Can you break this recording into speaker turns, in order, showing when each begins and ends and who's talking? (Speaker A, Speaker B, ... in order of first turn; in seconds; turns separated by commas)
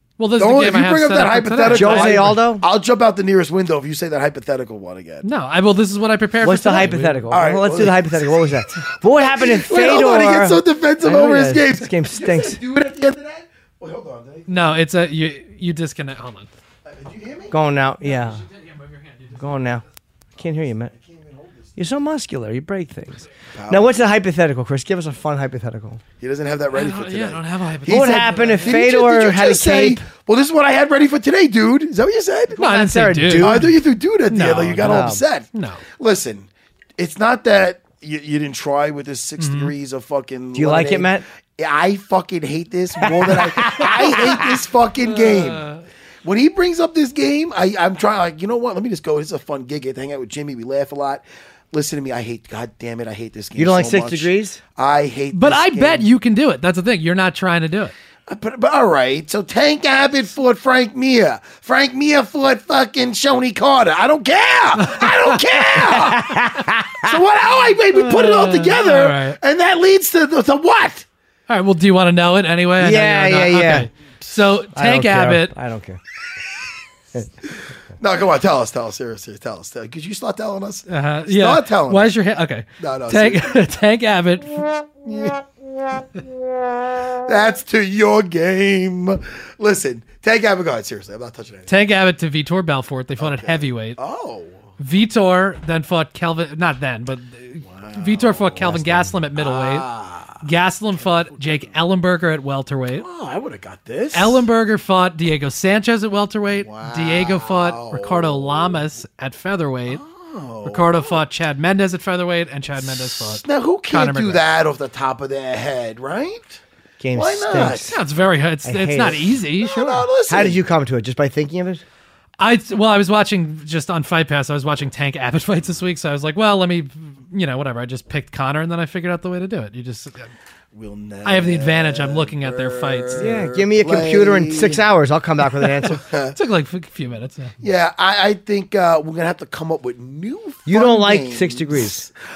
Speaker A: 0.2-2.4, Speaker B: 0.4-5.2, Speaker C: 1.7-2.6, Speaker A: 5.2-7.3, Speaker C: 6.4-12.6, Speaker B: 6.8-8.4, Speaker B: 9.2-14.8, Speaker A: 14.5-16.5, Speaker B: 16.8-17.5, Speaker C: 17.5-18.4, Speaker A: 18.2-19.4, Speaker C: 19.4-19.8, Speaker C: 20.4-20.9, Speaker B: 20.9-21.7, Speaker C: 21.8-26.0, Speaker B: 23.5-24.0, Speaker B: 26.2-32.7, Speaker A: 26.7-28.9, Speaker C: 27.9-30.0, Speaker A: 32.6-33.7, Speaker C: 32.6-33.7, Speaker B: 33.3-45.7, Speaker A: 34.3-35.8, Speaker C: 34.7-35.2, Speaker A: 39.4-39.7, Speaker C: 40.5-41.2, Speaker C: 43.0-44.6, Speaker A: 45.1-45.8, Speaker B: 46.2-56.1, Speaker C: 53.5-54.6, Speaker A: 55.3-57.9, Speaker B: 58.3-71.0, Speaker A: 64.8-65.8, Speaker C: 65.8-67.1, Speaker A: 67.9-69.4, Speaker A: 71.5-75.5, Speaker C: 72.8-73.9, Speaker C: 74.7-76.0, Speaker B: 78.0-82.1, Speaker A: 80.9-84.8, Speaker B: 82.8-83.6, Speaker B: 85.0-85.5, Speaker B: 87.1-91.7, Speaker A: 91.7-94.0, Speaker B: 93.2-94.6, Speaker A: 94.8-99.9, Speaker B: 97.6-98.8, Speaker C: 98.7-99.1, Speaker B: 99.3-100.4, Speaker A: 100.4-103.0, Speaker B: 101.0-101.8, Speaker B: 102.9-104.4, Speaker A: 104.1-110.0, Speaker B: 106.6-108.8, Speaker B: 109.9-111.2, Speaker A: 110.6-114.4, Speaker B: 112.8-116.6, Speaker C: 117.0-118.0, Speaker B: 117.1-117.8, Speaker A: 117.6-120.1, Speaker C: 118.6-119.3, Speaker B: 119.6-120.6, Speaker C: 120.3-121.8, Speaker A: 122.4-130.3, Speaker B: 130.7-134.8, Speaker A: 131.2-133.3, Speaker C: 133.2-136.0, Speaker A: 135.8-137.5, Speaker B: 135.9-136.3, Speaker B: 137.6-142.1, Speaker C: 140.7-142.1